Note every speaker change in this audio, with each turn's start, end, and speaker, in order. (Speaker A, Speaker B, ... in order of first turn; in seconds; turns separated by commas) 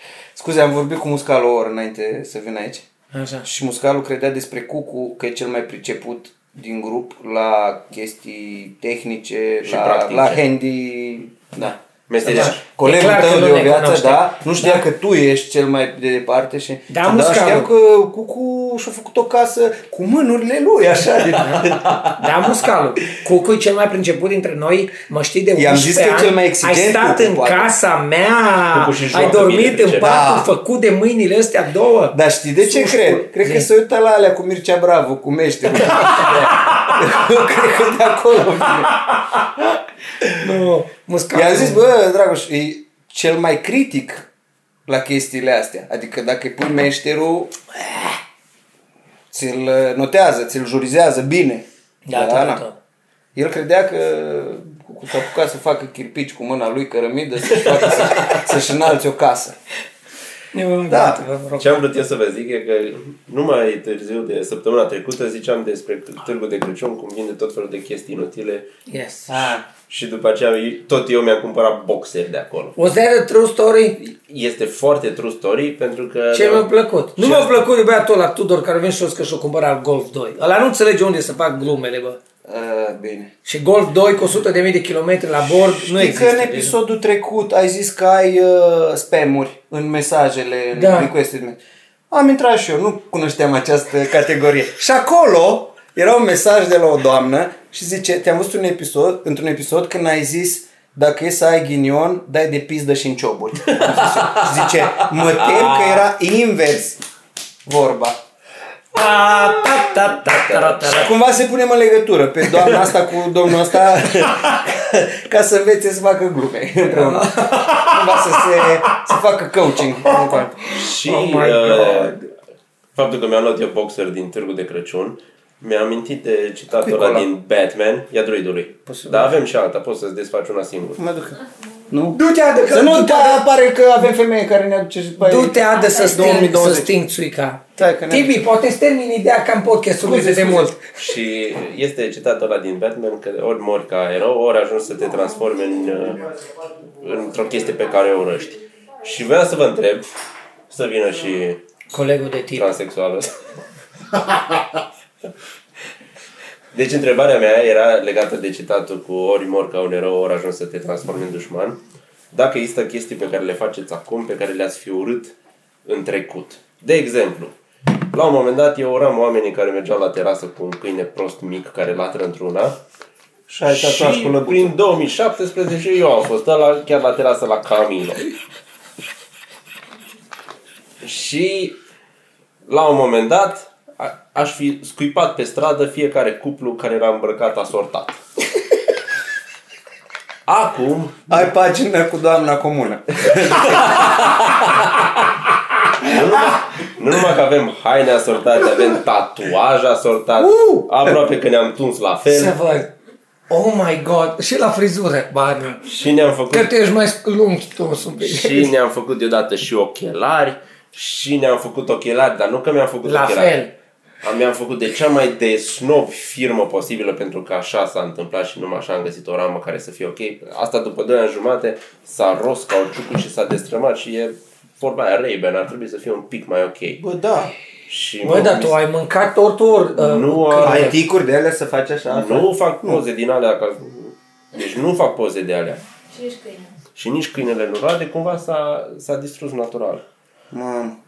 Speaker A: 0.3-2.8, Speaker B: 3.1-3.5, Speaker A: 3.4-22.3, Speaker C: 9.6-10.4, Speaker C: 12.1-12.6, Speaker B: 12.2-14.8, Speaker B: 16.9-17.7, Speaker B: 21.4-33.7, Speaker A: 25.5-27.7, Speaker C: 28.7-30.3, Speaker A: 30.0-30.5, Speaker A: 32.1-39.0, Speaker B: 35.8-36.9, Speaker A: 40.2-40.5, Speaker B: 40.3-41.9, Speaker A: 41.3-44.3, Speaker A: 44.9-47.5, Speaker A: 49.3-52.6, Speaker B: 52.0-52.8, Speaker A: 53.3-59.5, Speaker B: 60.5-61.8, Speaker A: 60.9-61.2, Speaker C: 61.6-68.7, Speaker B: 68.9-69.6, Speaker A: 69.3-69.6, Speaker C: 69.9-72.8, Speaker B: 72.8-74.0, Speaker C: 74.0-77.6, Speaker B: 76.3-82.2, Speaker A: 82.4-83.3, Speaker B: 83.4-86.8, Speaker A: 85.7-91.6, Speaker B: 90.7-91.1, Speaker A: 92.1-107.0, Speaker C: 103.7-106.0, Speaker A: 107.7-108.2, Speaker B: 108.9-111.1, Speaker C: 109.6-111.0, Speaker A: 110.9-120.7, Speaker C: 112.6-112.9, Speaker B: 116.9-119.0, Speaker B: 120.1-122.3, Speaker C: 120.7-122.1, Speaker C: 122.9-131.0, Speaker A: 126.7-127.3, Speaker B: 128.9-129.3, Speaker A: 131.0-136.9, Speaker B: 132.1-133.4, Speaker B: 135.2-140.7, Speaker A: 137.8-138.4, Speaker A: 140.0-140.7, Speaker C: 140.9-146.3, Speaker C: 147.0-150.1, Speaker C: 150.7-151.6, Speaker B: 151.9-152.7, Speaker C: 152.5-153.3, Speaker C: 156.7-161.8, Speaker C: 162.3-165.3, Speaker C: 165.8-167.5, Speaker C: 168.1-172.8, Speaker A: 173.5-174.7, Speaker C: 173.7-178.3, Speaker C: 181.0-181.8, Speaker C: 182.7-188.2, Speaker C: 190.5-191.4, Speaker A: 191.3-194.4, Speaker C: 193.7-194.8, Speaker C: 196.0-202.6, Speaker B: 200.4-200.8, Speaker B: 202.2-202.9, Speaker B: 203.5-205.8, Speaker C: 205.8-206.7, Speaker B: 206.5-208.7, Speaker C: 208.2-213.6, Speaker B: 213.0-213.7, Speaker C: 214.2-227.0, Speaker A: 227.0-227.5, Speaker C: 227.9-228.8, Speaker B: 228.2-231.0, Speaker C: 229.9-230.9, Speaker A: 230.6-233.0, Speaker C: 232.1-235.8, Speaker C: 236.9-240.0, Speaker A: 240.5-240.9